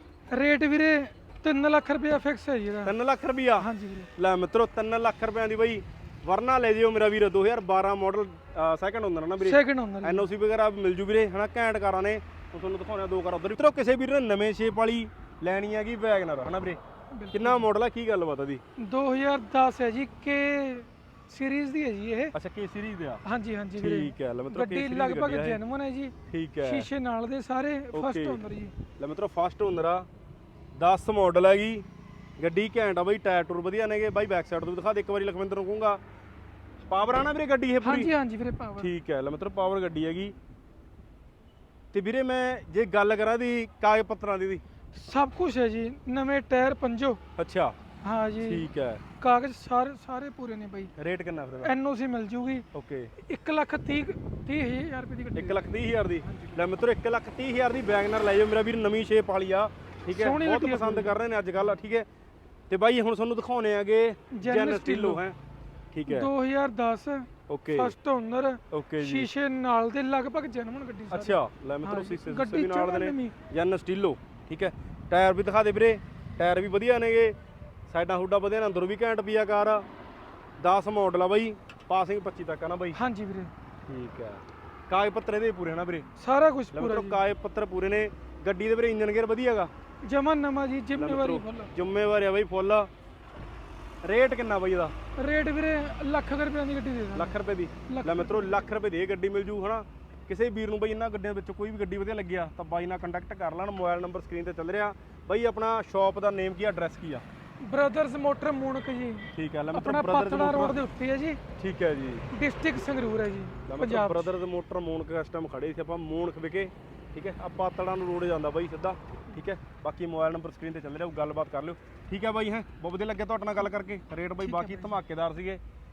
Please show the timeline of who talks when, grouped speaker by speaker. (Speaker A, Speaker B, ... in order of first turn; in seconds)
Speaker A: 0.3-3.0, 3.6-4.1, 9.4-10.3, 17.1-17.7, 18.8-22.4, 23.2-28.8, 37.8-38.9, 44.9-47.2, 48.0-48.7, 49.2-50.9, 51.6-52.7, 53.2-55.6, 56.2-56.6, 60.1-61.2, 64.3-65.2, 66.1-73.3, 83.0-83.5, 86.2-87.2, 90.0-91.7, 95.2-97.3, 97.9-98.6, 107.6-111.4, 112.3-114.3, 124.4-125.0
Speaker B: 2.9-16.8, 17.3-18.6, 22.3-23.2, 23.8-25.6, 26.3-26.9, 27.9-28.4, 29.0-30.1, 30.8-31.9, 32.4-36.0, 36.9-38.1, 38.8-40.3, 41.9-44.6, 47.4-47.8, 48.4-49.0, 51.0-51.7, 52.7-53.1, 55.4-62.1, 62.7-65.4, 65.9-66.3, 67.5-67.9, 68.7-69.3, 71.1-77.3, 77.9-79.8, 80.6-83.0, 83.9-86.1, 86.7-89.7, 91.0-92.9, 94.0-94.9, 97.2-107.2, 109.3-110.8, 111.6-112.3, 113.7-125.6